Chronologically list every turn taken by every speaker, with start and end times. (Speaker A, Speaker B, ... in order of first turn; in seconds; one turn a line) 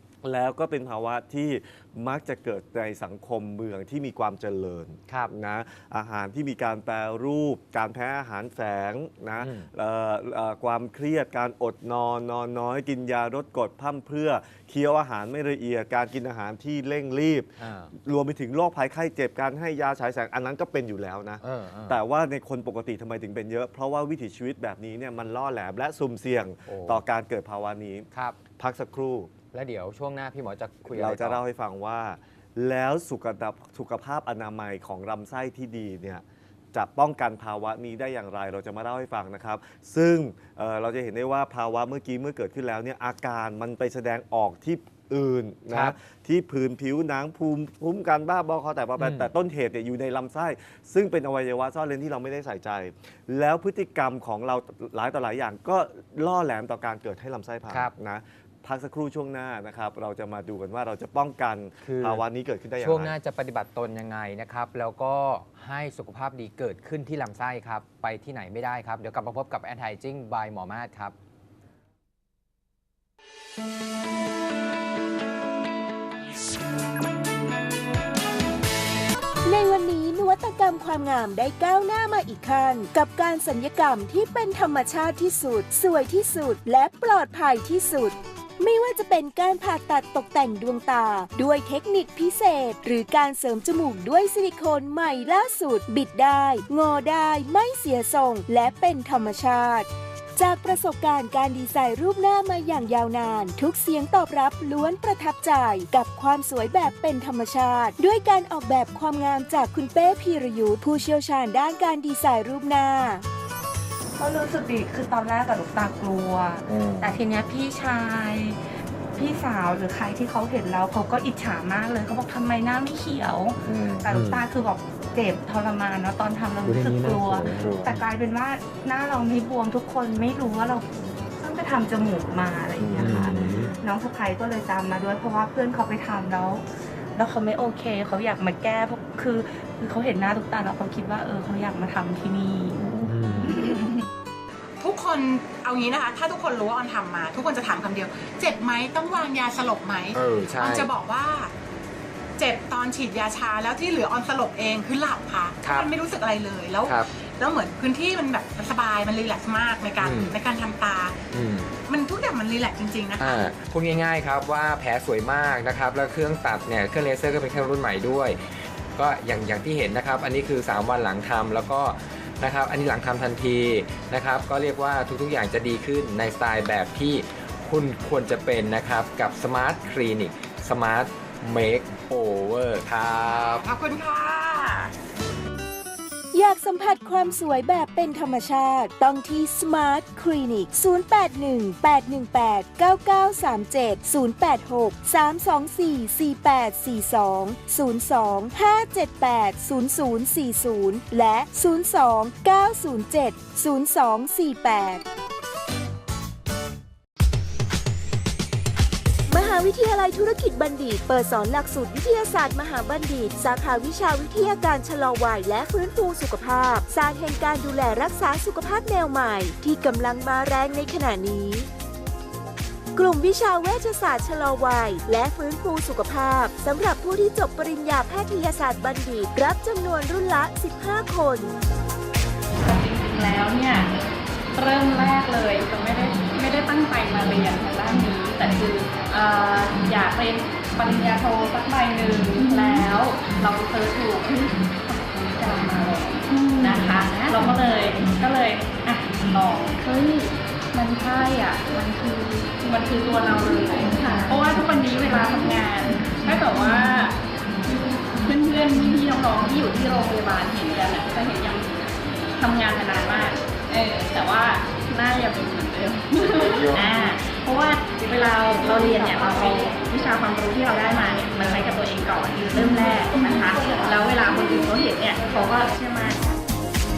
Speaker A: 0.2-29.3
Speaker B: 5.1-5.3
Speaker B: 9.4-9.7
Speaker B: 17.6-17.9
Speaker B: 21.4-22.0
Speaker B: 26.6-27.0
Speaker B: 28.1-28.4
Speaker B: 29.5-31.4
Speaker A: 30.9-63.1
Speaker B: 45.7-46.0
Speaker B: 49.0-49.3
Speaker B: 57.7-57.9
Speaker B: 61.8-62.2
Speaker B: 62.8-71.1
Speaker C: 79.5-113.2
Speaker D: 114.3-118.5
Speaker A: 116.7-117.2
Speaker D: 119.2-130.8
Speaker A: 123.6-124.2
Speaker B: 124.1-124.4
Speaker B: 126.6-128.1
Speaker A: 127.5-127.9
Speaker D: 131.4-136.6
Speaker A: 132.8-133.7
Speaker B: 132.9-133.7
Speaker D: 137.2-143.0
Speaker B: 143.0-143.6
Speaker E: 143.5-143.9
Speaker E: 144.8-151.5
Speaker B: 150.1-150.9
Speaker E: 152.4-161.2
Speaker B: 155.6-155.9
Speaker B: 156.8-157.1
Speaker B: 160.0-160.4
Speaker B: 161.3-161.7
Speaker E: 161.8-163.5
Speaker B: 163.2-183.7
Speaker E: 183.6-184.9
Speaker C: 186.3-205.0
Speaker C: 209.3-221.7
Speaker C: 222.9-231.6
Speaker F: 232.6-234.0
Speaker F: 234.5-257.2
Speaker F: 257.7-276.4